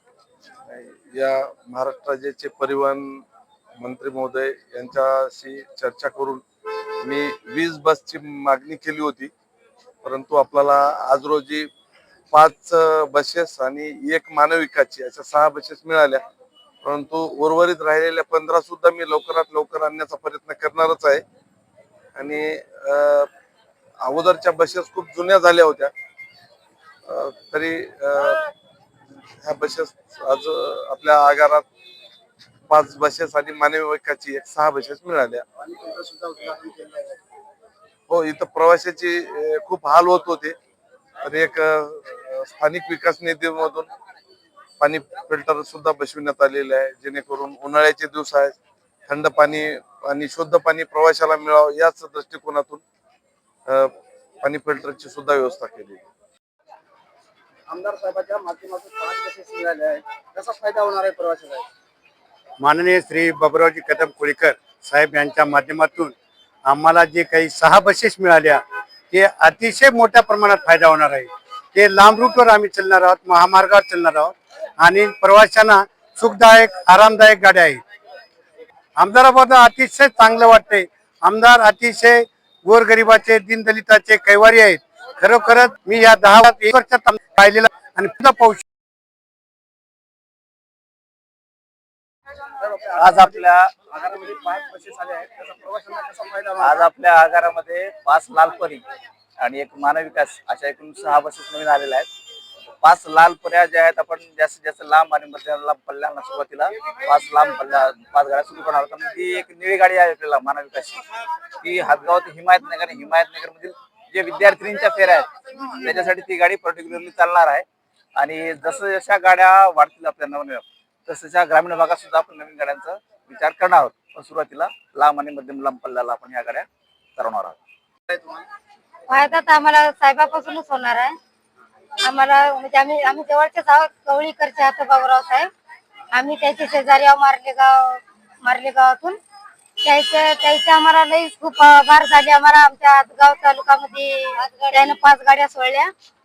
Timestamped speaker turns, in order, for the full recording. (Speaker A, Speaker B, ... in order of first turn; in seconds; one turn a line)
Speaker A: 0.7-3.2
Speaker A: 3.8-6.4
Speaker A: 7.0-9.3
Speaker A: 10.0-11.7
Speaker A: 12.3-16.2
Speaker A: 16.8-21.2
Speaker A: 22.1-23.3
Speaker A: 24.0-25.9
Speaker A: 27.1-28.5
Speaker A: 29.4-31.7
Speaker A: 32.7-35.5
Speaker B: 35.6-37.2
Speaker A: 38.1-40.5
Speaker A: 41.2-43.9
Speaker A: 44.8-48.6
Speaker A: 49.1-52.8
Speaker A: 53.7-56.0
Speaker B: 57.7-61.7
Speaker C: 62.6-66.1
Speaker C: 66.7-77.8
Speaker C: 79.0-88.6
Speaker B: 92.6-96.9
Speaker D: 93.0-93.7
Speaker D: 96.6-98.8
Speaker D: 99.4-102.1
Speaker D: 102.8-111.0
Speaker D: 111.6-127.6
Speaker E: 129.1-131.2
Speaker E: 132.0-135.5
Speaker E: 136.1-139.2
Speaker E: 139.8-145.9